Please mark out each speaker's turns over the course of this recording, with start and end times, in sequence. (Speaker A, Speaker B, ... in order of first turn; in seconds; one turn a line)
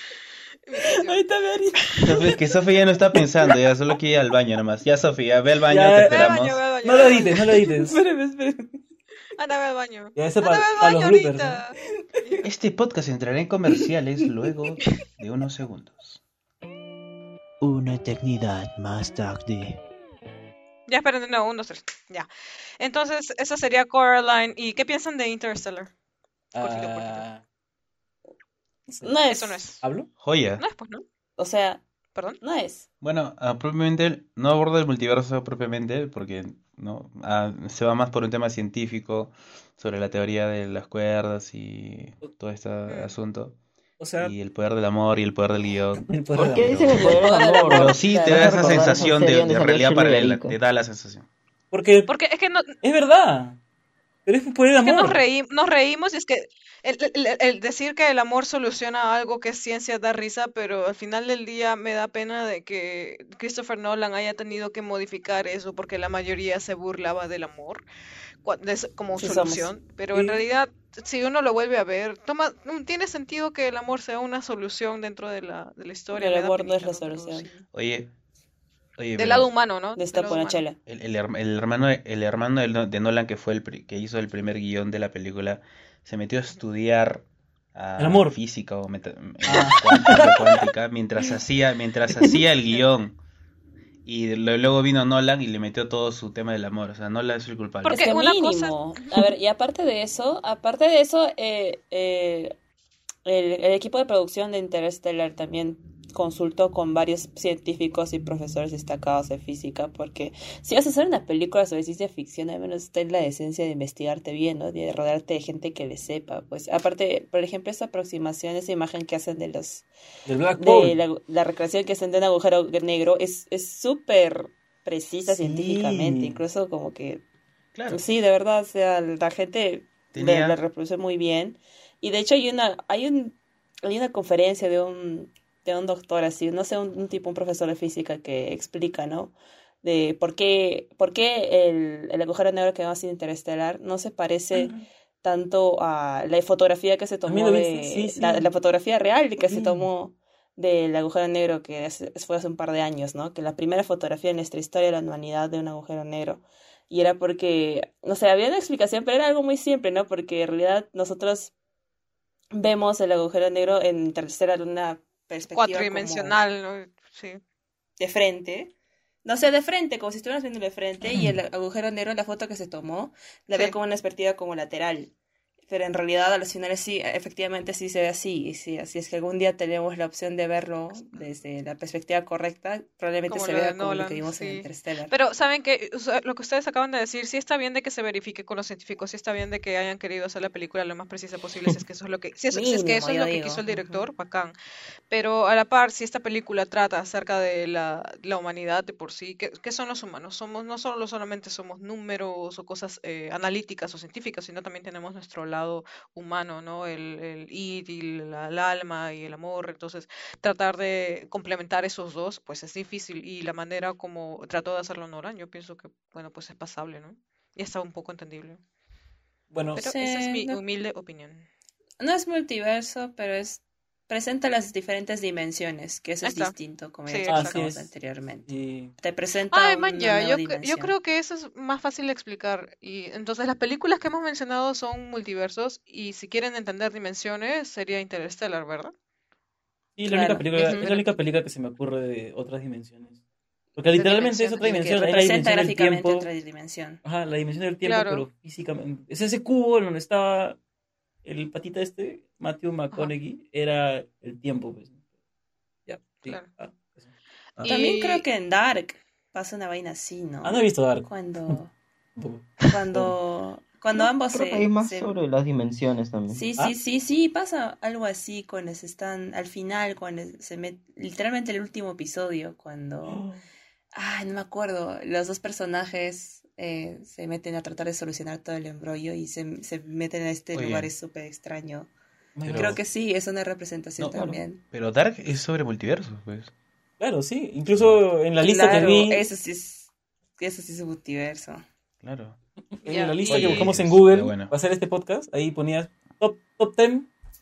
Speaker A: 0.7-1.2
Speaker B: 0.8-2.0
Speaker C: 2.0-6.7
Speaker D: 5.7-8.0
Speaker A: 6.1-7.4
Speaker B: 7.3-8.8
Speaker A: 9.3-12.4
Speaker D: 10.1-11.6
Speaker C: 12.4-16.2
Speaker E: 17.6-19.8
Speaker A: 20.9-22.3
Speaker A: 22.8-25.9
Speaker D: 26.5-27.4
Speaker A: 26.6-27.2
Speaker D: 28.9-29.2
Speaker B: 29.0-29.6
Speaker A: 29.3-29.8
Speaker D: 29.8-30.1
Speaker C: 30.2-30.6
Speaker A: 30.6-31.0
Speaker B: 31.4-31.8
Speaker B: 32.4-32.9
Speaker C: 33.0-43.5
Speaker A: 42.9-43.1
Speaker D: 44.0-44.3
Speaker C: 44.2-51.2
Speaker D: 46.0-47.1
Speaker F: 46.4-50.5
Speaker B: 46.9-49.2
Speaker D: 51.7-52.1
Speaker A: 52.1-52.7
Speaker D: 52.8-53.6
Speaker D: 54.2-55.2
Speaker A: 54.8-67.8
Speaker A: 68.4-77.6
Speaker B: 69.2-69.7
Speaker D: 70.1-70.5
Speaker B: 76.1-77.5
Speaker C: 77.7-78.1
Speaker C: 79.0-79.5
Speaker A: 79.2-80.6
Speaker B: 80.0-80.8
Speaker C: 80.9-87.2
Speaker C: 87.7-93.2
Speaker D: 88.0-88.3
Speaker D: 89.4-90.7
Speaker C: 94.0-98.1
Speaker A: 97.8-98.8
Speaker B: 97.9-102.5
Speaker B: 103.2-119.9
Speaker D: 120.2-121.0
Speaker B: 120.6-127.2
Speaker D: 125.3-126.4
Speaker C: 127.7-128.0
Speaker B: 127.9-161.5
Speaker C: 130.1-130.6
Speaker D: 144.5-144.8
Speaker D: 147.2-148.5
Speaker D: 149.4-149.9
Speaker B: 162.5-166.4
Speaker A: 165.5-167.4
Speaker B: 168.0-168.7
Speaker B: 169.2-175.1
Speaker A: 173.5-173.8
Speaker B: 175.7-185.1
Speaker A: 183.3-194.5
Speaker B: 192.5-194.0
Speaker A: 195.1-218.6
Speaker D: 219.5-219.8
Speaker B: 219.8-220.6
Speaker A: 219.8-221.5
Speaker B: 222.0-230.9
Speaker A: 226.2-226.5
Speaker A: 227.1-227.6
Speaker D: 227.2-227.9
Speaker D: 228.5-228.9
Speaker A: 229.5-238.9
Speaker D: 239.9-243.2
Speaker B: 240.1-240.9
Speaker A: 240.6-241.1
Speaker D: 243.7-246.3
Speaker B: 243.9-247.0
Speaker D: 247.0-250.6
Speaker A: 247.8-248.2
Speaker D: 251.2-255.0
Speaker D: 255.8-257.1
Speaker A: 257.6-258.2
Speaker B: 257.6-261.7
Speaker D: 260.4-261.6
Speaker D: 262.2-263.1
Speaker B: 262.7-265.2
Speaker F: 263.9-266.4
Speaker B: 266.3-273.2
Speaker D: 273.1-273.4
Speaker B: 273.9-281.9
Speaker C: 280.5-280.9
Speaker D: 282.3-282.8
Speaker C: 282.4-282.8
Speaker B: 282.5-284.6
Speaker C: 284.0-286.5
Speaker D: 287.0-289.2
Speaker C: 287.7-288.0
Speaker B: 288.4-291.6
Speaker C: 292.0-292.4
Speaker D: 292.7-297.1
Speaker B: 292.8-293.7
Speaker C: 293.3-294.5